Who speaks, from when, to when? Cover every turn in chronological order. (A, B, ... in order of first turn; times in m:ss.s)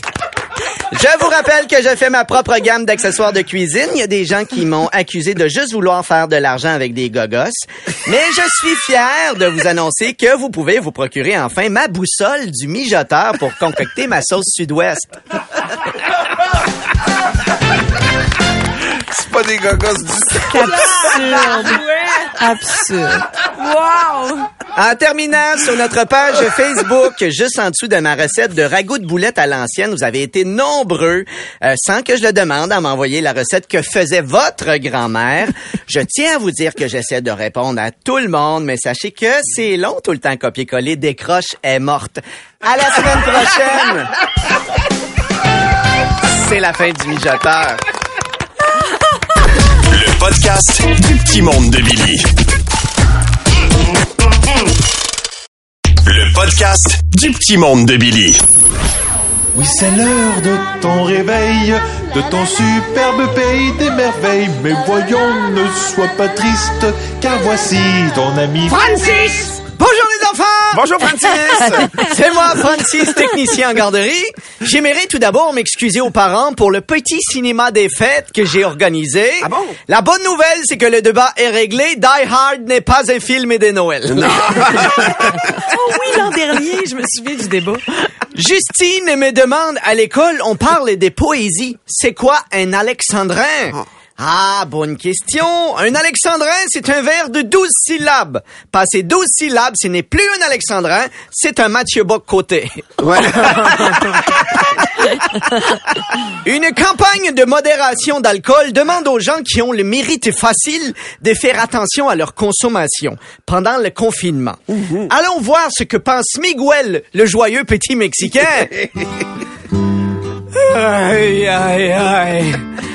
0:00.9-0:15.1 A
0:19.0-0:21.4 B
0:20.5-0:24.5 C
0:24.8-0:44.1 A
0:46.2-0:47.8 A
0:49.9-0:52.3 D
0:56.1-0:58.4 D
0:59.6-1:09.1 E
1:08.7-1:24.8 A
1:10.7-1:12.0 B
1:19.4-1:19.8 B
1:24.1-1:25.4 B
1:25.5-1:27.8 C
1:28.3-1:44.4 A
1:43.0-1:44.0 B
1:45.4-1:58.9 A
2:00.5-2:02.6 A